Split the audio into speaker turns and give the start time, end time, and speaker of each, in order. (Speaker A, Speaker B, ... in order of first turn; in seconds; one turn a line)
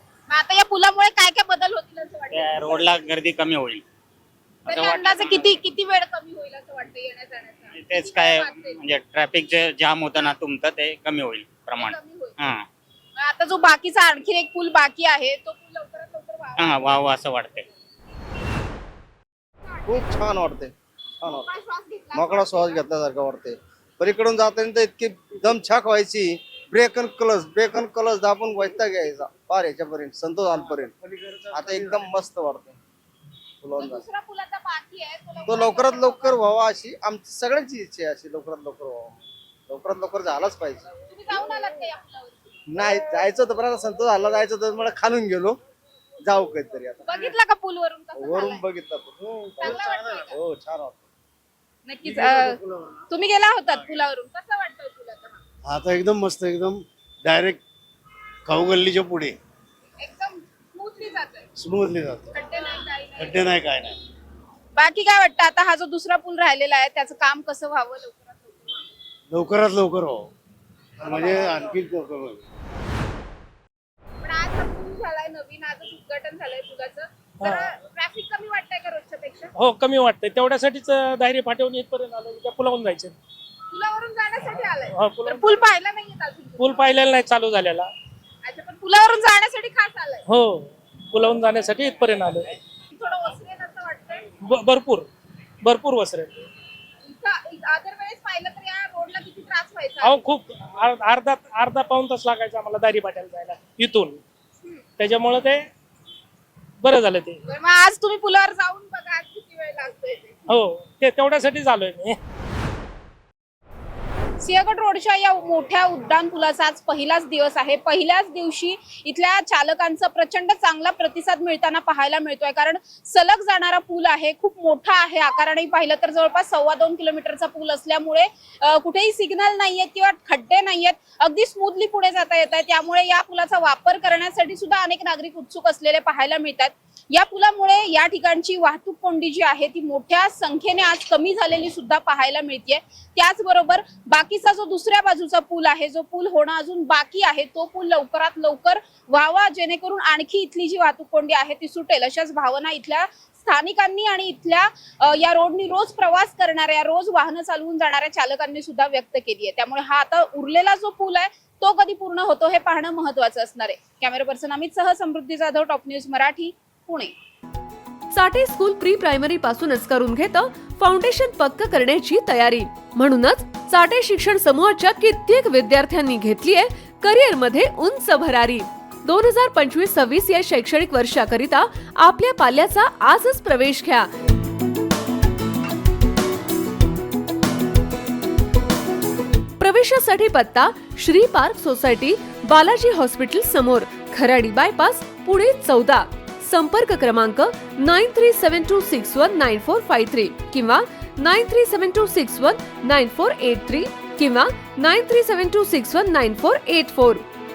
Speaker A: 0.3-2.9
Speaker B: 2.3-3.9
Speaker B: 4.7-5.6
Speaker A: 4.7-8.8
Speaker B: 7.7-12.7
Speaker A: 11.8-12.4
Speaker A: 13.2-16.7
Speaker B: 16.6-17.7
Speaker A: 19.7-20.0
Speaker C: 19.9-21.5
Speaker A: 21.4-22.8
Speaker C: 22.1-30.9
Speaker D: 30.8-32.1
Speaker C: 31.5-32.8
Speaker C: 33.6-34.0
Speaker A: 33.8-36.4
Speaker C: 35.5-39.2
Speaker C: 39.7-40.9
Speaker A: 41.1-42.4
Speaker C: 42.7-45.6
Speaker C: 46.2-47.2
Speaker A: 47.1-48.6
Speaker C: 48.2-51.0
Speaker A: 49.6-50.4
Speaker D: 49.7-50.3
Speaker A: 51.9-52.6
Speaker A: 53.1-55.4
Speaker D: 55.6-57.6
Speaker D: 58.5-59.4
Speaker A: 60.0-61.5
Speaker D: 61.6-62.3
Speaker A: 62.4-63.4
Speaker D: 63.2-64.0
Speaker A: 64.8-68.7
Speaker D: 69.3-70.3
Speaker D: 71.0-72.5
Speaker A: 74.2-79.5
Speaker E: 77.4-77.7
Speaker E: 79.6-83.2
Speaker A: 83.7-86.8
Speaker E: 85.0-85.6
Speaker E: 86.6-87.9
Speaker A: 88.4-90.2
Speaker E: 90.3-92.6
Speaker A: 93.0-94.3
Speaker E: 94.4-95.1
Speaker E: 95.6-96.5
Speaker A: 97.0-100.2
Speaker E: 100.0-104.2
Speaker E: 105.0-105.7
Speaker E: 106.8-107.4
Speaker A: 107.5-110.5
Speaker E: 110.5-112.2
Speaker A: 114.4-167.2
Speaker F: 168.1-184.1
Speaker F: 189.6-207.2